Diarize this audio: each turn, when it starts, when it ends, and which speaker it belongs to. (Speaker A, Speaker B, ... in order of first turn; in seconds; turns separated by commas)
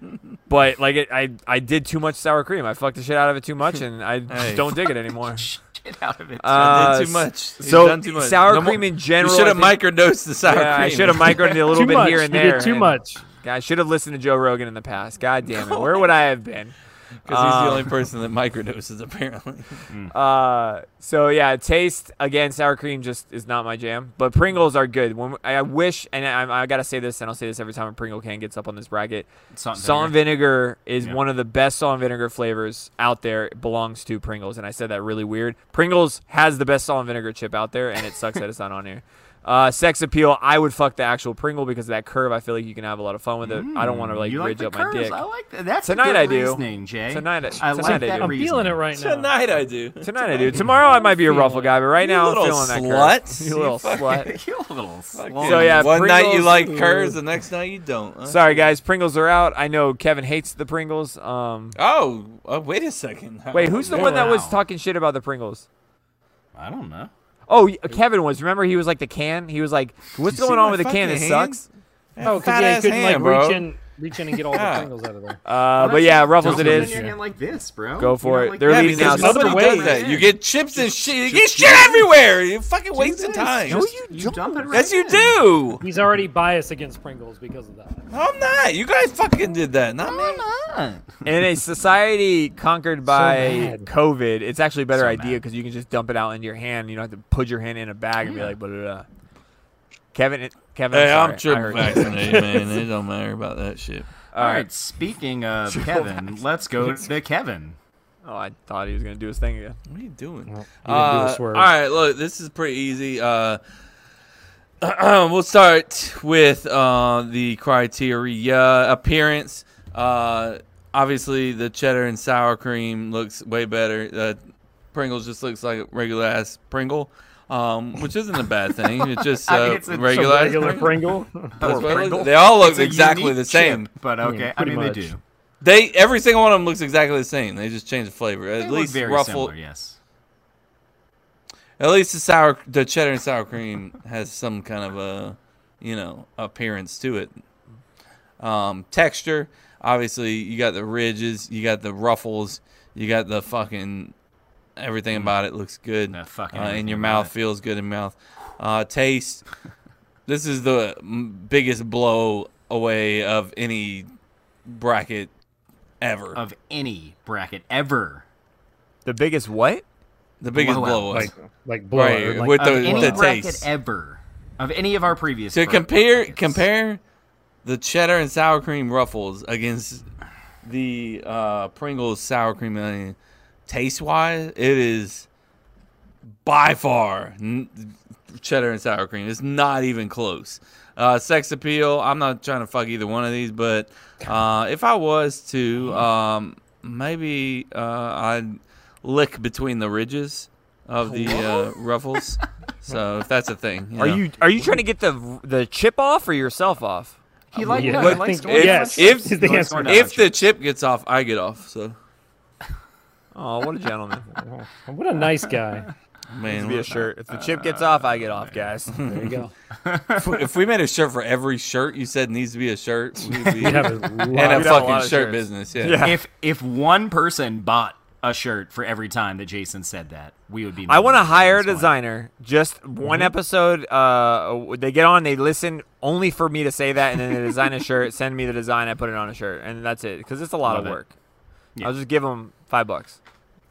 Speaker A: 0.5-5.5, Speaker B: 4.3-4.7, Speaker C: 5.3-7.0, Speaker A: 6.4-9.8, Speaker B: 6.5-11.7, Speaker A: 10.4-16.7, Speaker D: 11.7-13.2, Speaker B: 15.5-15.9, Speaker A: 17.2-17.9, Speaker B: 17.2-19.8, Speaker C: 19.9-20.1, Speaker A: 20.1-45.2, Speaker C: 29.5-30.2, Speaker C: 43.4-48.8, Speaker A: 45.8-48.3, Speaker D: 47.8-49.4, Speaker B: 48.9-50.7, Speaker A: 50.0-54.3, Speaker B: 51.3-54.3, Speaker C: 54.0-55.9, Speaker B: 55.1-58.6, Speaker A: 55.4-57.2, Speaker A: 58.2-61.8, Speaker B: 61.8-64.3, Speaker A: 63.5-65.7, Speaker C: 63.8-64.6, Speaker C: 66.5-67.1, Speaker A: 67.5-71.6, Speaker B: 70.3-71.6, Speaker B: 72.2-73.6, Speaker D: 72.2-75.4, Speaker B: 74.5-74.9, Speaker A: 75.4-77.0, Speaker C: 75.7-82.1, Speaker D: 76.4-77.2, Speaker A: 78.0-79.9, Speaker B: 78.6-83.8, Speaker D: 79.0-80.0, Speaker C: 82.9-85.4, Speaker A: 83.7-84.8, Speaker B: 84.7-85.8, Speaker D: 85.8-88.0, Speaker B: 88.1-90.4, Speaker C: 90.0-91.2, Speaker A: 91.2-99.0, Speaker D: 93.1-93.9, Speaker C: 94.9-95.4, Speaker C: 98.2-98.5, Speaker A: 100.1-102.6, Speaker B: 100.9-104.1, Speaker A: 104.3-104.7, Speaker C: 104.3-107.8, Speaker A: 105.7-106.1, Speaker A: 108.2-109.8, Speaker B: 109.9-113.6, Speaker D: 110.5-111.7, Speaker B: 114.8-124.4, Speaker B: 124.9-130.9, Speaker C: 129.0-130.9, Speaker D: 130.1-131.6, Speaker C: 131.6-135.2, Speaker B: 131.6-133.9, Speaker A: 131.7-132.2, Speaker D: 134.2-135.1, Speaker B: 135.6-139.5, Speaker C: 138.6-140.0, Speaker B: 141.8-147.3, Speaker B: 148.4-154.1, Speaker B: 154.8-159.4, Speaker C: 156.1-157.3, Speaker B: 160.3-164.1, Speaker B: 164.7-165.3, Speaker B: 166.0-166.4, Speaker C: 166.3-168.2, Speaker A: 169.0-169.8, Speaker B: 170.4-171.3, Speaker C: 170.5-171.3, Speaker D: 171.1-173.3, Speaker B: 171.9-173.7, Speaker C: 172.6-176.6, Speaker B: 175.5-177.0, Speaker B: 177.6-180.0, Speaker B: 180.6-183.2, Speaker B: 183.7-185.3, Speaker B: 186.4-204.2, Speaker A: 201.1-201.6, Speaker A: 204.0-207.2, Speaker C: 207.5-210.3, Speaker D: 207.6-210.0, Speaker B: 207.7-211.9, Speaker A: 213.3-214.3, Speaker D: 214.4-215.9, Speaker B: 216.3-217.0, Speaker A: 216.5-219.1, Speaker C: 217.3-218.6, Speaker B: 218.9-219.4, Speaker D: 219.0-219.5, Speaker C: 219.8-220.3, Speaker B: 220.1-226.0, Speaker D: 223.4-224.9, Speaker A: 224.3-226.2, Speaker C: 226.0-231.9, Speaker A: 230.9-241.1, Speaker D: 233.0-233.3, Speaker C: 240.6-241.0, Speaker A: 241.8-243.2